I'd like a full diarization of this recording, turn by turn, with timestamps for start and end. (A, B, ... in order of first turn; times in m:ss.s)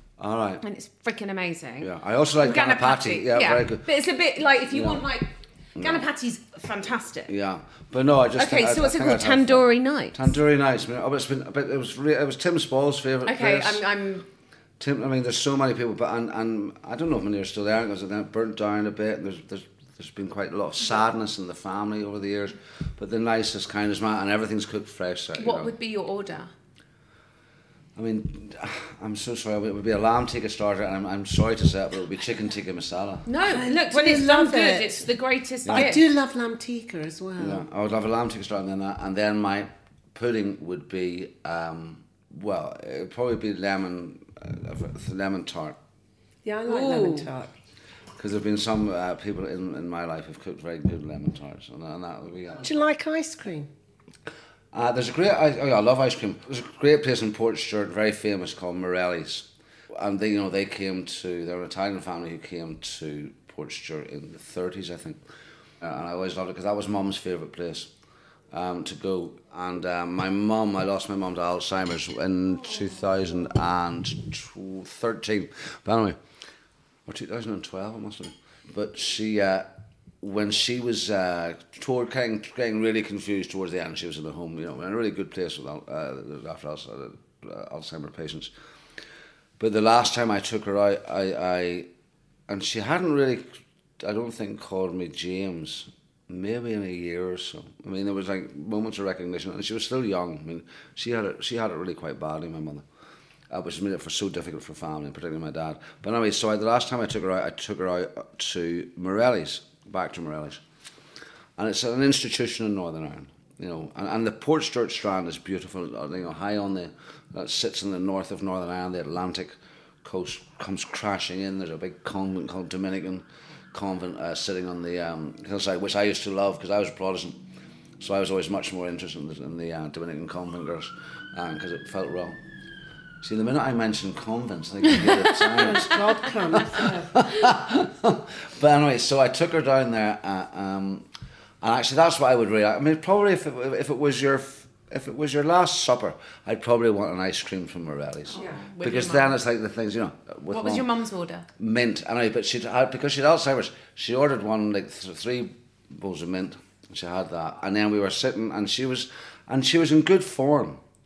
0:00.2-0:00.6 A
0:00.6-0:07.3 B
0:01.8-0:03.9 A
0:04.7-0:05.0 A
0:05.8-0:06.1 A
0:07.3-0:13.8 A
0:08.4-0:10.3 B
0:13.2-0:14.2 B
0:14.8-0:25.7 A
0:25.4-0:26.5 B
0:28.0-0:33.2 A
0:33.3-0:36.0 B
0:33.4-0:35.1 C
0:35.7-0:36.0 A
0:35.7-0:37.6 C
0:37.4-0:45.8 A
0:46.4-0:47.5 C
0:46.7-0:47.3 B
0:48.2-0:52.8 A
0:52.6-0:53.7 C
0:54.7-1:05.2 A
1:05.8-1:07.9 A
1:08.5-1:16.2 A
1:17.1-1:19.7 A
1:20.2-1:28.5 A
1:29.6-1:31.9 A
1:32.5-1:33.4 A
1:34.0-1:42.8 A
1:43.5-1:50.6 A
1:51.6-2:07.4 A
2:08.0-2:12.4 A
2:13.2-2:21.0 A
2:15.5-2:17.3 C
2:21.6-2:30.9 A
2:28.3-2:29.4 B
2:30.5-2:31.5 B
2:31.6-2:40.8 A